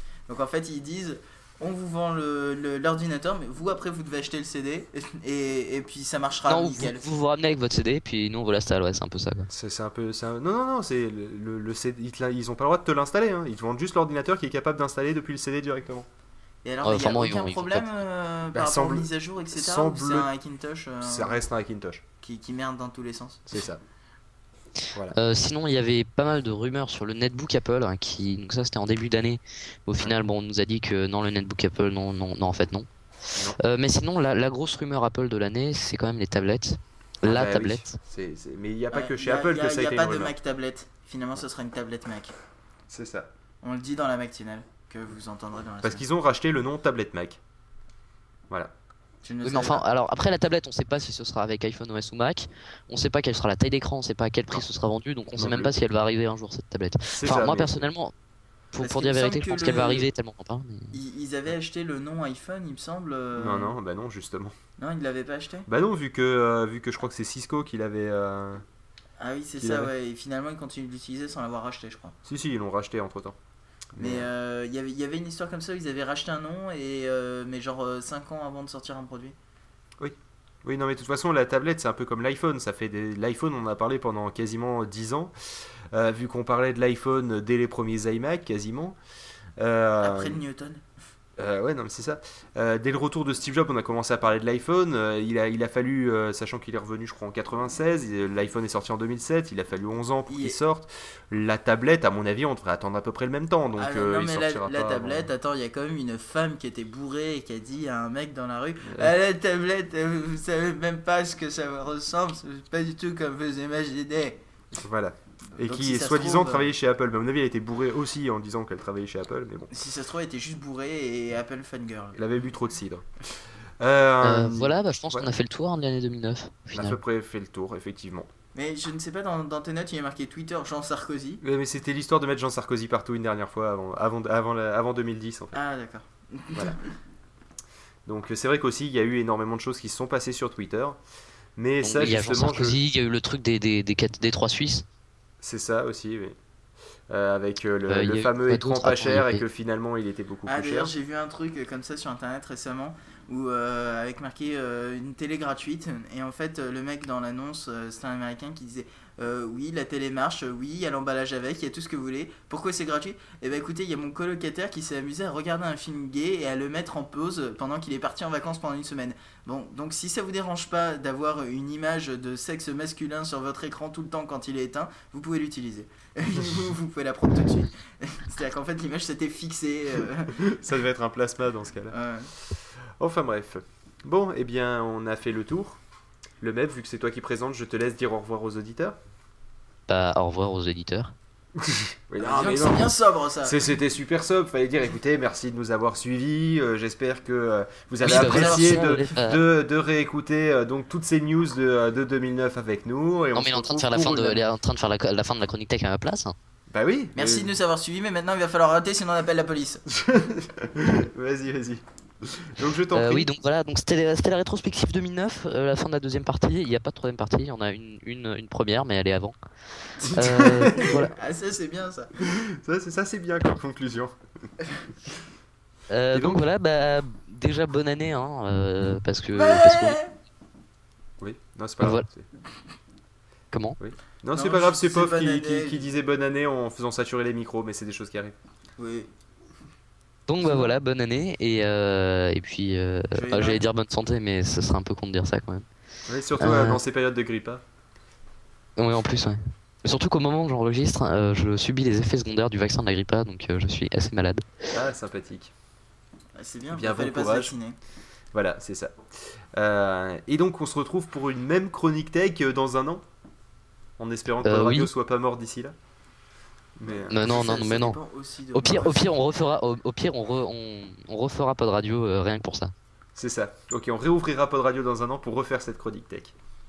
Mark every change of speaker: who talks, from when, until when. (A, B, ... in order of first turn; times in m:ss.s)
0:00.3-0:07.2 A
0:06.5-0:09.5 B
0:09.5-0:16.1 C
0:16.6-0:21.4 A
0:16.8-0:17.9 B
0:18.5-0:20.3 C
0:21.0-0:22.0 C
0:22.2-0:23.6 A
0:23.5-0:23.8 C
0:25.1-0:32.9 B
0:33.6-0:38.0 B
0:37.2-0:40.3 C
0:38.9-0:42.4 A
0:42.9-0:43.3 C
0:43.6-0:46.0 A
0:45.8-0:47.4 C
0:49.2-0:49.8 A
0:49.4-0:58.1 B
0:55.4-0:55.7 C
0:57.1-0:57.9 C
0:58.7-1:01.0 B
0:58.8-1:00.1 A
1:00.9-1:03.8 A
1:03.4-1:04.5 C
1:04.8-1:05.7 A
1:05.7-1:08.6 C
1:09.2-1:12.2 A
1:09.6-1:09.9 C
1:12.3-1:13.4 C
1:14.0-1:14.3 C
1:14.0-1:19.4 A
1:20.0-1:25.3 C
1:25.9-1:29.0 C
1:29.6-1:30.4 C
1:30.0-1:30.8 A
1:31.4-1:45.3 C
1:40.3-1:40.6 A
1:43.8-1:54.4 A
1:48.9-1:49.1 C
1:54.8-1:59.7 C
1:55.5-1:56.7 A
1:59.7-2:02.2 A
2:02.2-2:03.1 C
2:03.8-2:05.3 C
2:04.2-2:07.0 B
2:06.7-2:08.3 C
2:08.6-2:11.4 A
2:11.4-2:15.6 C
2:15.5-2:16.9 A
2:18.1-2:21.0 C
2:21.6-2:22.8 C
2:21.8-2:24.8 B
2:25.4-2:26.4 C
2:27.1-2:30.9 C
2:27.9-2:29.4 B
2:30.5-3:00.5 A
3:00.4-3:02.0 C
3:01.9-3:02.3 A
3:03.0-3:05.8 C
3:06.4-3:09.0 C
3:09.9-3:11.2 B
3:11.6-3:24.4 C
3:12.2-3:13.6 A
3:18.0-3:19.1 A
3:18.0-3:19.4 B
3:23.4-3:26.4 B
3:26.7-3:27.6 C
3:27.2-3:29.8 A
3:29.9-3:33.3 C
3:32.9-3:39.4 B
3:40.0-3:41.1 B
3:40.0-3:41.0 C
3:40.8-3:42.1 A
3:42.2-3:44.2 C
3:45.9-3:50.0 B
3:46.1-3:46.4 C
3:49.3-3:50.1 A
3:51.2-3:52.3 C
3:53.5-3:53.8 B
3:53.8-3:58.4 C
3:54.3-3:55.9 A
3:58.8-3:59.1 A
4:00.3-4:05.7 B
4:03.1-4:03.6 A
4:06.1-4:07.6 C
4:06.4-4:06.8 B
4:08.8-4:14.4 B
4:14.7-4:15.5 C
4:16.4-4:17.8 A
4:16.7-4:17.5 C
4:18.3-4:19.0 C
4:19.5-4:23.0 C
4:24.0-4:25.8 C
4:24.4-4:24.9 B
4:26.8-4:27.4 C
4:26.9-4:29.1 A
4:27.1-4:28.0 B
4:28.5-4:32.7 B
4:33.2-4:36.3 C